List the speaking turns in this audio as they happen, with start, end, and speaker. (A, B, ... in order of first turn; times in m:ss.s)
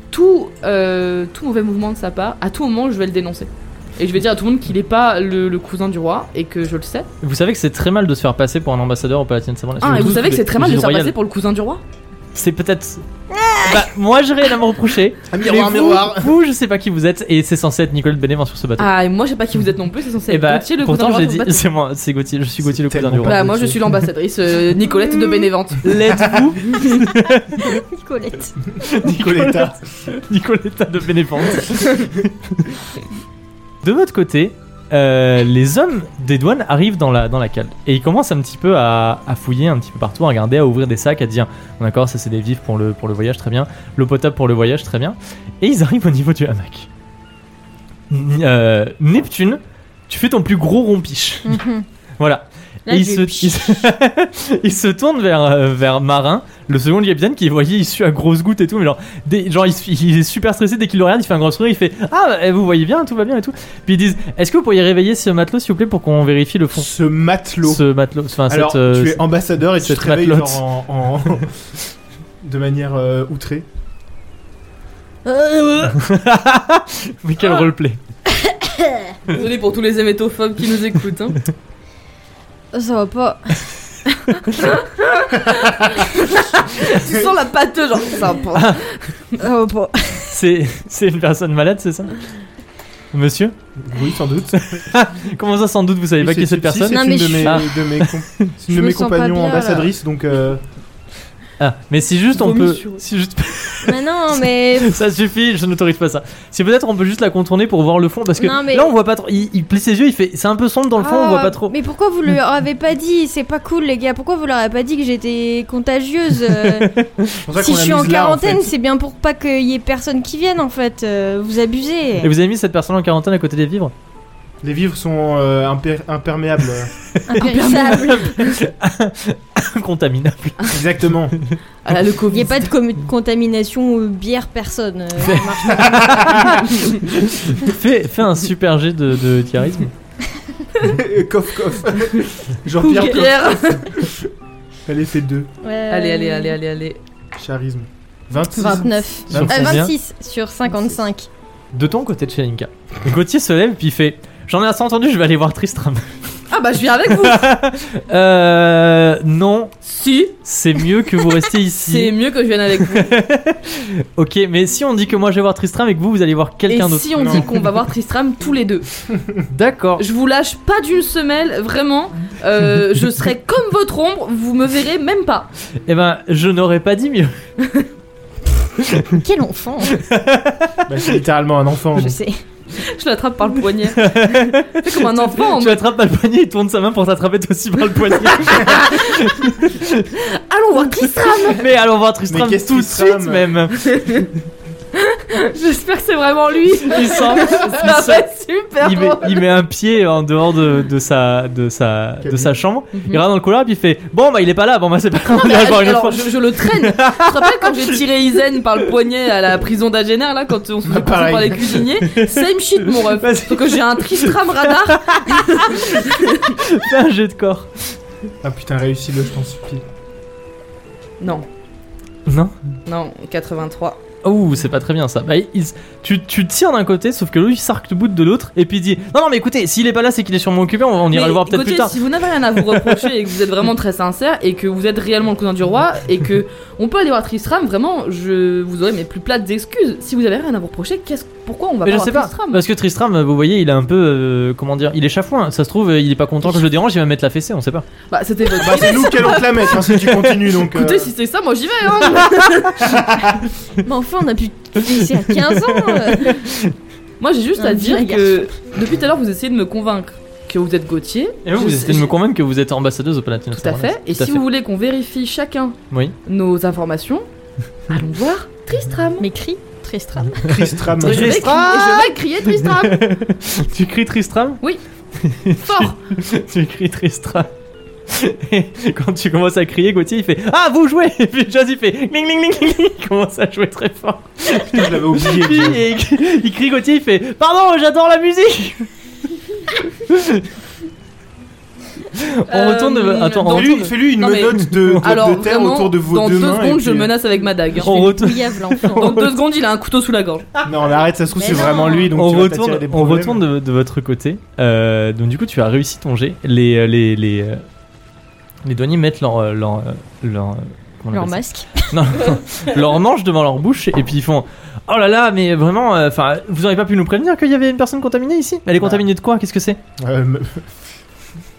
0:00.1-0:07.1 A
0:07.2-0:11.1 B
0:09.8-0:11.8 A
0:12.3-0:13.0 B
0:13.3-0:13.9 C
0:13.6-0:18.9 B
0:15.3-0:16.3 D
0:18.8-0:21.6 A
0:20.3-0:23.4 B
0:22.6-0:24.0 D
0:23.2-0:25.9 A
0:25.1-0:25.4 C
0:25.8-0:27.8 B
0:26.1-0:26.4 D
0:26.6-0:27.0 A
0:27.6-0:28.7 C
0:28.8-0:32.8 B
0:28.9-0:29.8 D
0:33.8-0:46.9 B
0:48.1-0:51.6 B
0:51.4-0:51.8 C
0:52.2-1:06.9 B
0:52.9-0:53.9 C
1:06.7-1:07.8 D
1:07.6-1:09.2 B
1:08.5-1:11.5 D
1:09.8-1:10.6 B
1:12.4-1:13.6 D
1:15.2-1:18.0 B
1:18.4-1:19.1 C
1:19.3-1:21.4 A
1:22.7-1:23.7 C
1:24.6-1:29.4 A
1:28.5-1:28.8 B
1:29.4-1:30.4 C
1:30.3-1:32.2 B
1:33.1-1:33.6 B
1:33.8-1:34.6 D
1:34.5-1:38.5 B
1:36.2-1:40.6 D
1:36.8-1:37.8 C
1:38.7-1:39.9 C
1:41.6-1:51.7 B
1:42.3-1:43.0 A
1:43.8-1:45.0 C
1:48.4-1:48.9 C
1:51.0-1:56.9 C
1:56.5-1:57.4 B
1:57.4-1:58.7 D
1:57.5-2:02.3 C
2:02.2-2:03.9 B
2:04.6-2:06.9 D
2:07.1-2:11.6 B
2:07.3-2:08.4 C
2:07.4-2:07.9 A
2:10.7-2:11.3 D
2:11.8-2:12.7 A
2:12.3-2:16.5 C
2:15.2-2:19.9 B
2:15.7-2:16.6 D
2:20.8-2:24.3 D
2:22.8-2:24.0 A
2:22.9-2:23.2 C
2:24.8-2:25.5 D
2:25.6-2:26.6 C
2:25.9-2:27.0 A
2:27.4-2:29.6 D
2:28.4-2:31.3 C
2:29.3-2:29.9 B
2:29.5-2:29.8 A
2:30.7-2:30.9 A
2:31.7-2:36.4 B
2:36.5-2:37.5 A
2:37.1-2:39.7 B
2:39.8-2:40.9 A
2:40.4-2:42.1 B
2:41.8-2:43.2 A
2:42.8-2:47.6 B
2:46.7-2:48.9 A
2:47.1-2:47.4 D
2:49.1-2:49.4 D
2:49.5-2:50.0 B
2:50.0-2:55.5 A
2:55.8-2:57.4 B
2:57.6-2:57.9 A
2:58.8-2:59.2 B
2:59.1-3:00.0 C
2:59.9-3:01.1 B
3:00.9-3:02.2 D
3:01.9-3:02.4 C
3:02.7-3:05.8 A
3:03.8-3:10.1 B
3:08.4-3:09.4 A
3:10.1-3:11.6 A
3:11.4-3:14.3 B
3:12.3-3:13.6 D
3:13.7-3:14.3 A
3:14.9-3:19.5 A
3:16.8-3:18.2 B
3:18.8-3:28.0 B
3:22.2-3:22.5 D
3:22.9-3:23.2 A
3:25.3-3:36.6 A
3:30.8-3:31.9 D
3:32.0-3:37.9 B
3:38.4-3:39.8 D
3:41.2-3:41.5 A
3:42.3-3:42.5 B
3:42.8-3:44.0 A
3:44.2-3:52.0 B
3:51.1-4:02.6 A
4:01.8-4:07.8 B
4:08.1-4:13.2 A
4:08.6-4:11.1 D
4:12.8-4:13.4 D
4:13.8-4:16.4 C
4:15.2-4:16.7 B
4:17.2-4:22.1 A
4:17.6-4:18.5 C
4:21.4-4:24.4 B
4:23.5-4:27.2 A
4:27.9-4:29.2 A
4:29.2-4:30.6 C
4:30.4-4:31.5 D
4:30.5-4:34.6 B
4:31.0-4:33.0 A
4:35.2-4:37.5 B
4:35.6-4:36.0 A
4:38.1-4:48.9 B
4:44.5-4:45.8 D
4:49.9-4:50.5 B
4:52.1-4:53.9 B
4:52.5-4:58.0 A
4:53.4-4:57.1 D
4:54.7-4:55.1 B
4:57.8-4:59.3 B
4:57.8-4:59.3 C
4:58.8-5:00.4 A
5:00.6-5:03.4 D
5:01.4-5:02.1 C
5:02.1-5:07.6 B
5:08.6-5:19.8 B
5:11.1-5:12.0 C
5:18.8-5:19.0 D
5:20.0-5:20.7 D